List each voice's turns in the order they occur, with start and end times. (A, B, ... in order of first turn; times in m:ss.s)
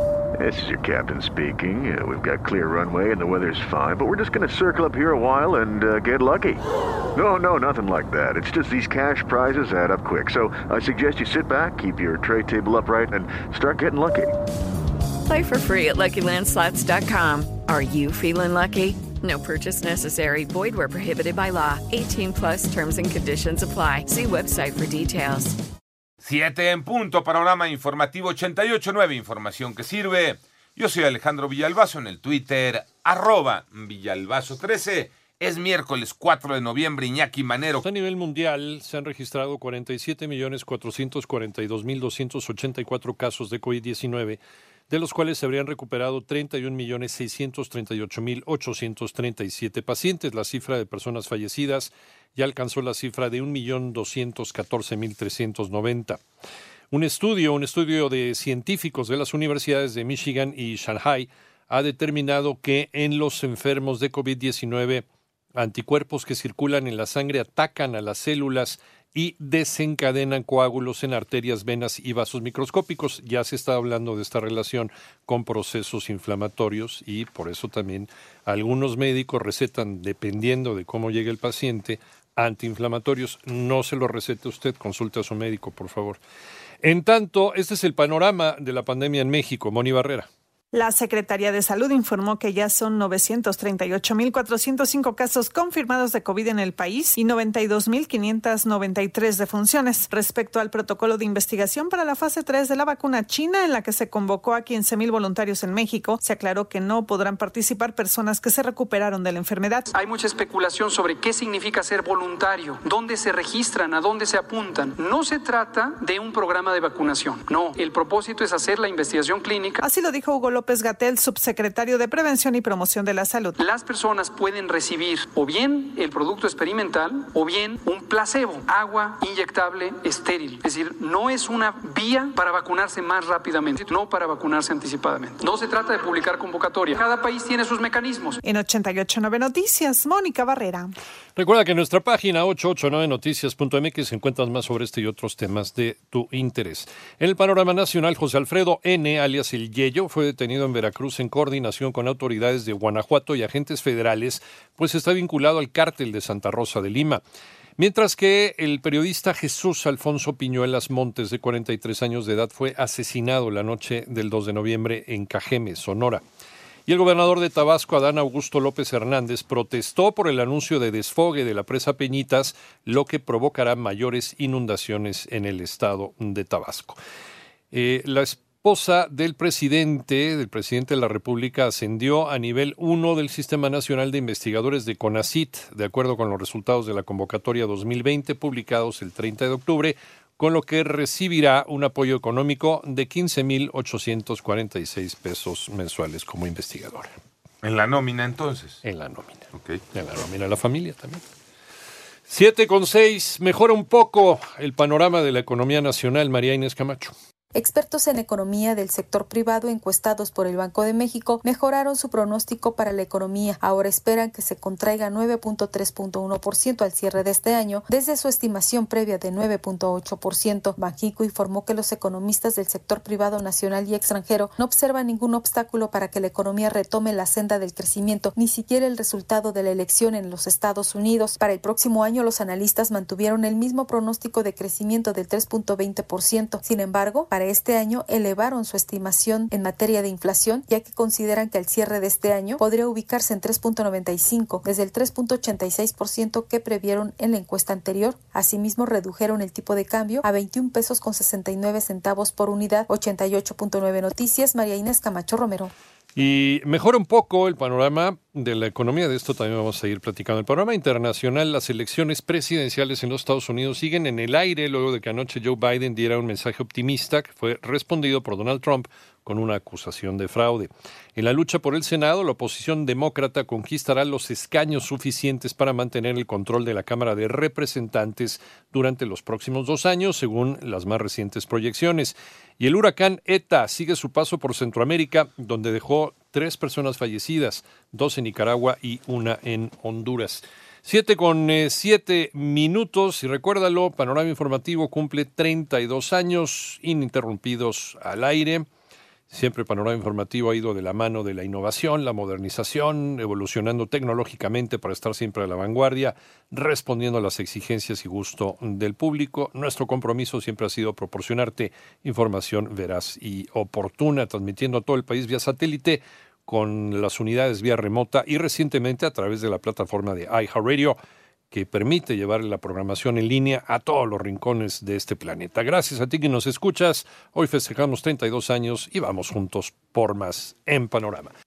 0:00.4-0:06.6 A
0:07.1-0:14.3 A
0:15.2-0:25.5 B
0:26.2-0:37.8 C
0:37.8-0:56.2 D
0:56.9-1:05.0 D
1:05.6-1:26.2 D
1:26.8-1:30.3 D
1:30.7-1:49.9 E
1:49.9-1:59.8 F
1:59.8-2:03.6 E
2:03.6-2:18.4 F
2:18.4-2:20.9 E
2:21.4-2:37.2 D
2:37.8-2:46.2 D
2:46.9-2:57.0 D
2:57.7-3:17.1 D
3:17.6-3:18.8 C
3:18.8-3:21.2 D
3:22.3-3:27.1 D
3:27.5-4:15.7 G
4:16.2-4:58.6 D
4:59.3-5:21.0 D
5:21.5-5:31.3 D